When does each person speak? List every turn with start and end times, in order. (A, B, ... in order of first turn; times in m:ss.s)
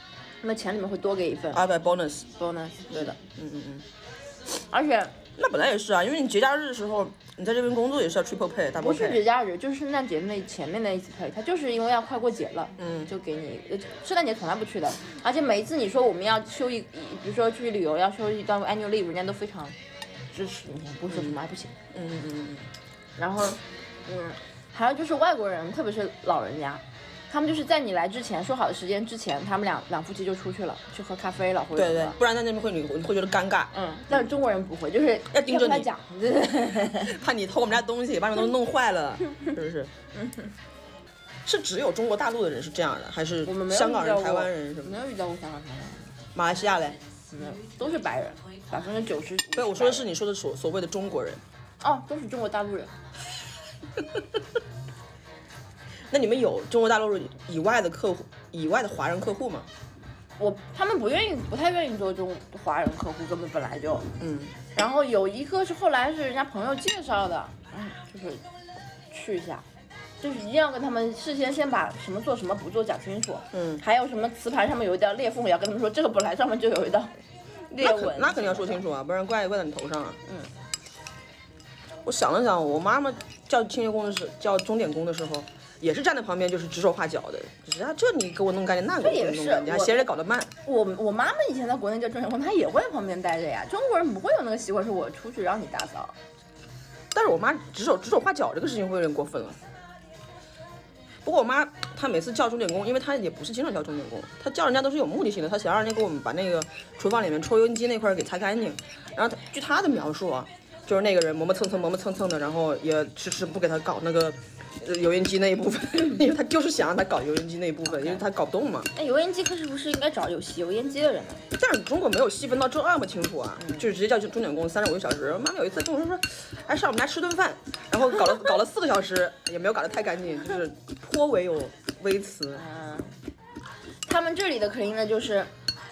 0:00.4-0:01.6 A
0:01.5-0:02.3 B
0:02.4-0:03.2 A
0:02.9-0:03.8 B
0:04.7-0:05.2 A
0:05.4-0:09.2 B
0:08.8-0:19.7 A
0:12.8-0:13.1 B
0:20.3-0:21.7 A
0:21.1-0:21.4 B
0:21.9-0:22.7 B
0:23.2-0:32.2 A
0:31.7-0:34.3 B
0:33.7-0:37.1 A
0:35.3-0:35.9 B
0:37.0-0:39.9 B
0:41.4-0:44.9 B
0:43.4-0:46.2 A
0:46.3-0:47.0 B
0:47.3-0:50.1 A
0:49.6-0:51.4 B
0:51.8-0:52.9 A
0:56.1-0:59.7 B
1:00.4-1:04.1 A
1:04.2-1:04.6 B
1:04.6-1:08.4 A
1:09.1-1:09.6 A
1:10.2-1:17.2 A
1:13.5-1:13.8 B
1:17.7-1:20.2 B
1:17.8-1:18.8 A
1:22.0-1:30.5 B
1:29.0-1:30.0 A
1:30.6-1:36.1 A
1:37.1-1:39.6 B
1:41.2-1:58.9 B
1:57.9-1:58.2 A
1:58.9-2:01.4 A
2:01.5-2:12.6 B
2:03.6-2:03.8 A
2:12.5-2:13.2 A
2:14.0-2:15.5 A